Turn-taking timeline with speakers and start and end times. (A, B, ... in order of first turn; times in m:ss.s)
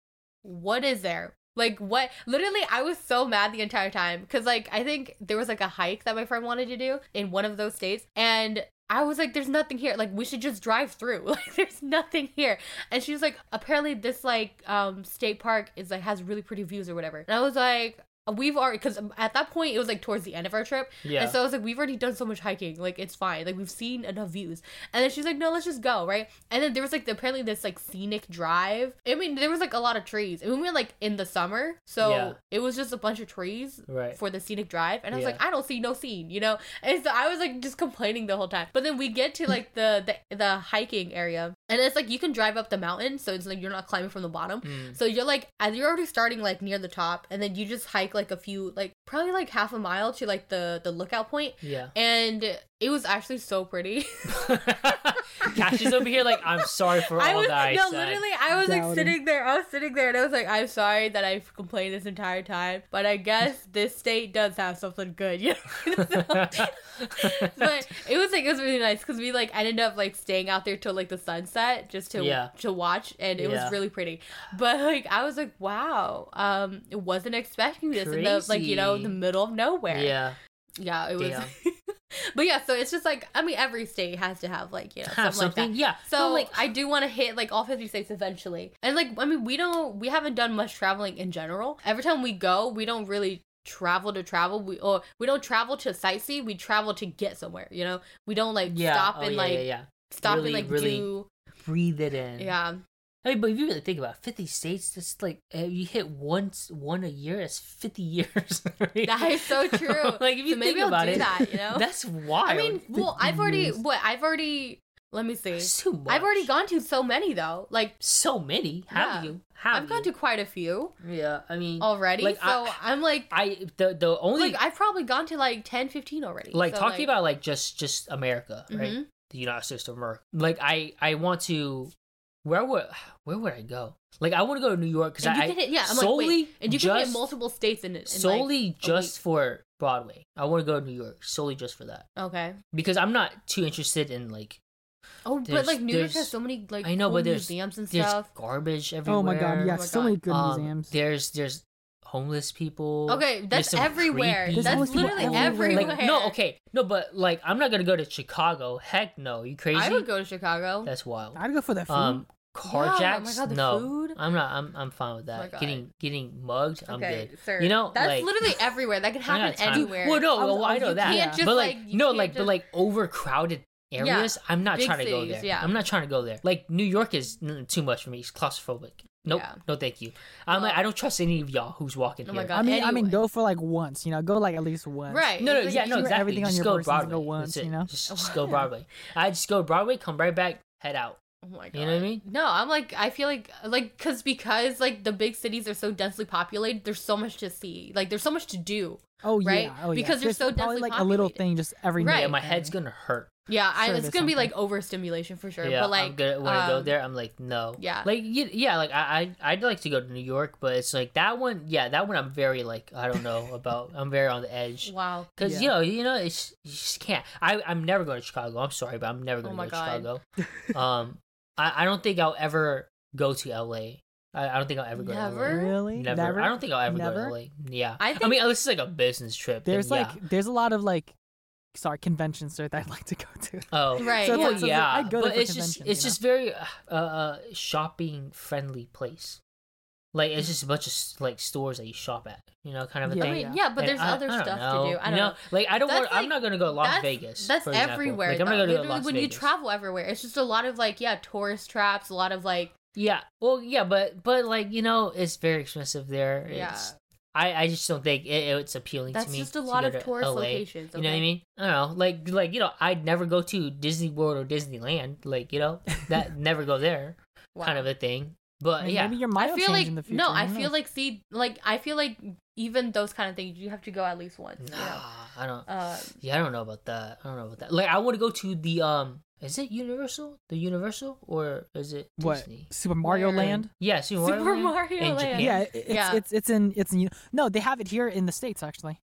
0:00.4-0:55.9 A
0:21.0-0:21.4 B
0:32.0-0:32.4 B
0:33.9-0:34.2 B
0:35.1-0:35.4 B
0:44.6-0:45.0 B
0:51.6-0:51.9 B
0:54.3-0:58.2 B
0:56.6-1:20.2 A
0:58.5-0:59.2 C
1:06.0-1:07.7 B
1:12.2-1:12.5 B
1:13.4-1:13.8 B
1:17.9-1:19.2 B
1:19.9-1:20.4 B
1:20.8-1:21.7 A
1:21.2-1:21.5 B
1:22.3-1:41.3 A
1:25.0-1:26.6 B
1:38.6-1:41.1 B
1:41.6-1:42.5 B
1:42.4-1:42.8 A
1:43.2-1:52.9 B
1:49.0-1:51.9 A
1:52.4-1:57.9 A
1:52.9-1:53.8 C
1:55.6-1:56.5 B
1:58.0-2:00.1 B
1:58.9-2:00.9 A
2:01.0-2:02.8 B
2:01.8-2:03.3 A
2:03.3-2:04.6 B
2:04.3-2:07.1 A
2:06.5-2:11.9 B
2:08.7-2:09.1 A
2:12.4-2:17.2 B
2:15.2-2:19.1 A
2:18.1-2:22.1 B
2:22.2-2:22.6 A
2:22.7-2:24.6 B
2:25.2-2:28.3 A
2:25.4-2:40.1 B
2:29.0-2:30.9 C
2:29.7-2:30.2 A
2:33.1-2:36.3 A
2:34.5-2:36.0 C
2:39.7-2:40.9 A
2:40.8-2:48.6 B
2:41.3-2:42.2 C
2:42.6-2:44.2 A
2:45.3-2:45.8 A
2:46.8-2:52.6 A
2:49.2-3:02.6 B
2:49.7-2:51.4 C
2:54.0-2:55.7 A
2:59.2-2:59.6 A
3:00.5-3:00.8 A
3:02.2-3:03.2 A
3:02.5-3:07.9 C
3:05.1-3:06.1 A
3:05.4-3:11.2 B
3:08.1-3:08.7 A
3:11.4-3:21.4 A
3:11.7-3:12.2 B
3:19.2-3:22.7 C
3:22.0-3:22.3 A
3:22.0-3:23.3 B
3:23.5-3:26.9 A
3:23.8-3:24.5 C
3:25.6-3:50.2 B
3:27.8-3:28.1 A
3:34.8-3:35.3 A
3:35.4-3:35.7 C
3:39.4-3:40.1 A
3:45.0-3:45.8 A
3:45.4-3:47.3 C
3:48.0-3:48.4 A
3:49.6-3:51.1 C
3:51.7-3:56.2 C
3:53.7-3:59.4 B
3:54.0-3:54.7 A
4:00.1-4:09.5 B
4:03.0-4:03.5 C
4:03.2-4:12.7 A
4:12.9-4:29.2 B
4:16.4-4:16.9 A
4:19.1-4:21.2 A
4:27.5-4:27.9 A
4:28.8-4:30.7 C
4:29.4-4:35.0 A
4:34.6-4:42.7 B
4:35.7-4:36.2 A
4:42.2-4:43.7 C
4:43.0-4:43.6 A
4:43.4-4:45.6 B
4:44.2-4:46.2 A
4:45.3-4:49.0 C